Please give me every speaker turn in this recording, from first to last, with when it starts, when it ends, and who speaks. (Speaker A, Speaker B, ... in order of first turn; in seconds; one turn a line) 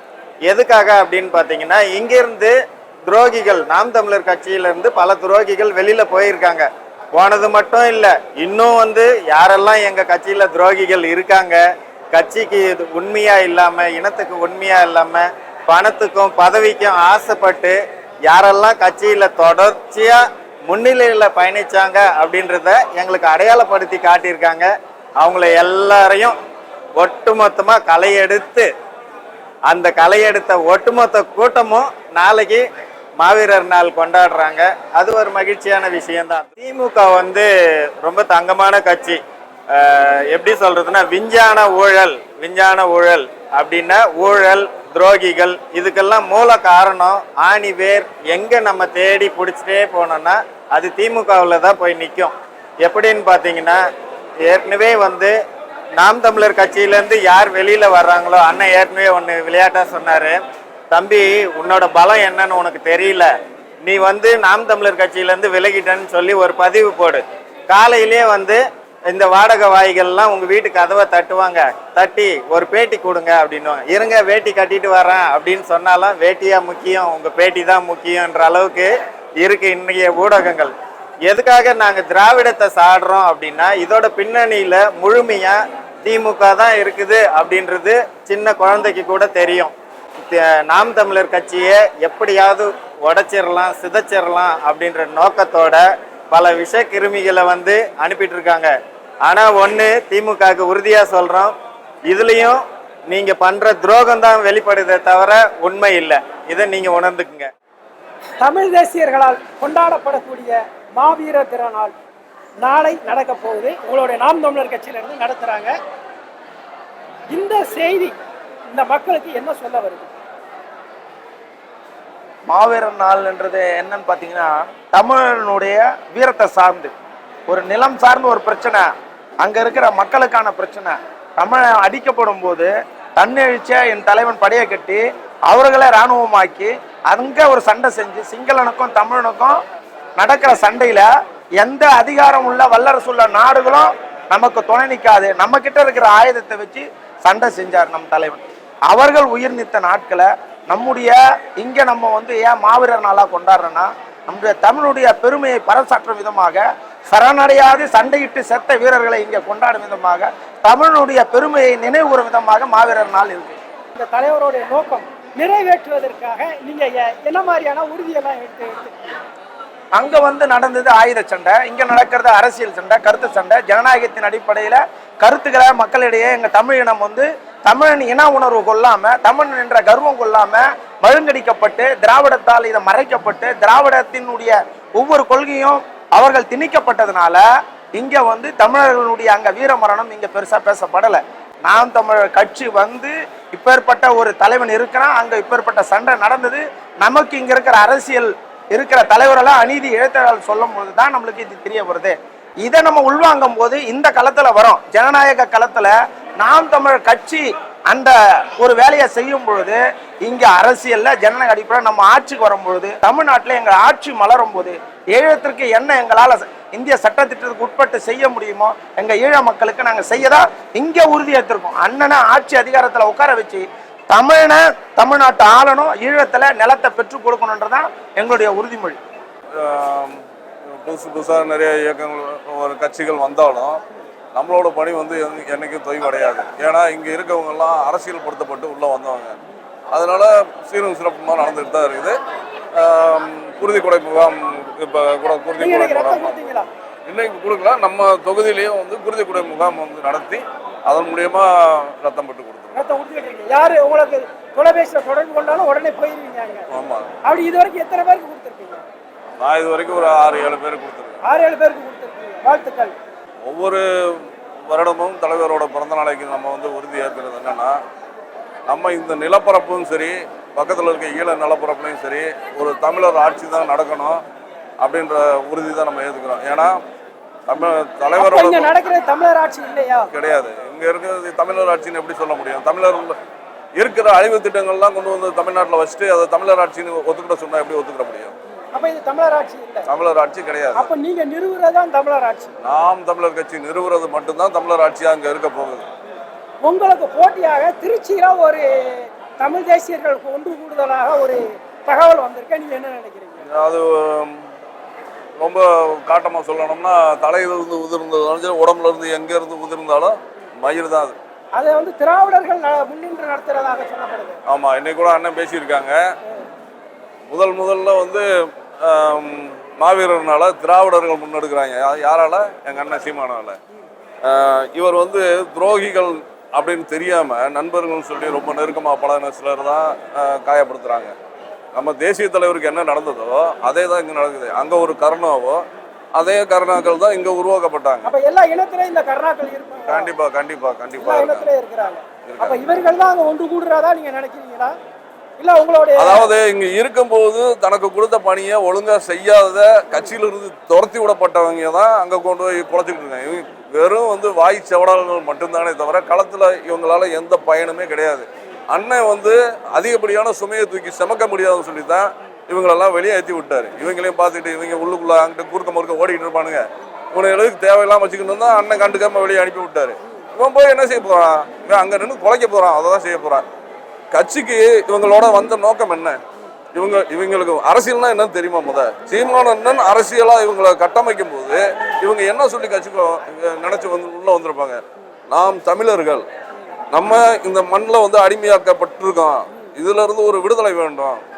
Speaker A: 0.4-26.4
Speaker A: 26.9-28.7
Speaker A: 29.6-32.6
Speaker A: 33.2-37.5
Speaker A: 38.0-39.2
Speaker A: 39.7-53.8
Speaker A: 54.4-55.4
Speaker A: 55.9-60.4
Speaker A: 60.9-63.3
Speaker A: 63.8-80.7
Speaker A: 81.2-89.7
Speaker A: 90.3-101.5
Speaker A: 102.1-107.5
Speaker B: 108.4-111.9
Speaker B: 112.6-115.7
Speaker B: 117.3-118.1
Speaker B: 118.7-120.1
Speaker C: 122.5-126.9
Speaker C: 127.5-128.9
Speaker C: 129.4-139.6
Speaker C: 140.2-163.6
Speaker B: 163.9-168.9
Speaker C: 169.9-187.4
Speaker C: 187.9-229.0
Speaker D: 229.6-230.2
Speaker D: 230.7-233.8
Speaker D: 234.3-239.4
Speaker D: 239.9-242.2
Speaker D: 242.7-246.4
Speaker B: 245.6-246.7
Speaker D: 247.1-252.8
Speaker B: 252.7-256.6
Speaker D: 256.7-257.1
Speaker B: 257.2-258.8
Speaker D: 259.4-261.2
Speaker B: 261.2-262.9
Speaker D: 263.4-267.8
Speaker D: 268.7-274.2
Speaker D: 274.8-276.8
Speaker D: 277.5-278.7
Speaker B: 278.1-280.1
Speaker D: 280.1-283.2
Speaker D: 283.7-288.3
Speaker B: 288.7-289.9
Speaker D: 289.9-290.9
Speaker B: 290.7-292.5
Speaker D: 292.6-295.9
Speaker B: 296.6-303.4
Speaker D: 303.5-304.4
Speaker D: 305.4-311.2
Speaker B: 311.5-314.4
Speaker D: 314.5-316.0
Speaker D: 317.3-318.2
Speaker D: 318.8-323.6
Speaker D: 324.2-331.1
Speaker D: 331.7-335.6
Speaker D: 336.1-338.1
Speaker B: 338.0-340.1
Speaker D: 339.9-341.5
Speaker B: 341.0-344.7
Speaker D: 342.2-342.6
Speaker B: 345.4-346.3
Speaker D: 346.0-373.4
Speaker D: 374.1-376.2
Speaker D: 376.7-386.2
Speaker D: 386.9-391.2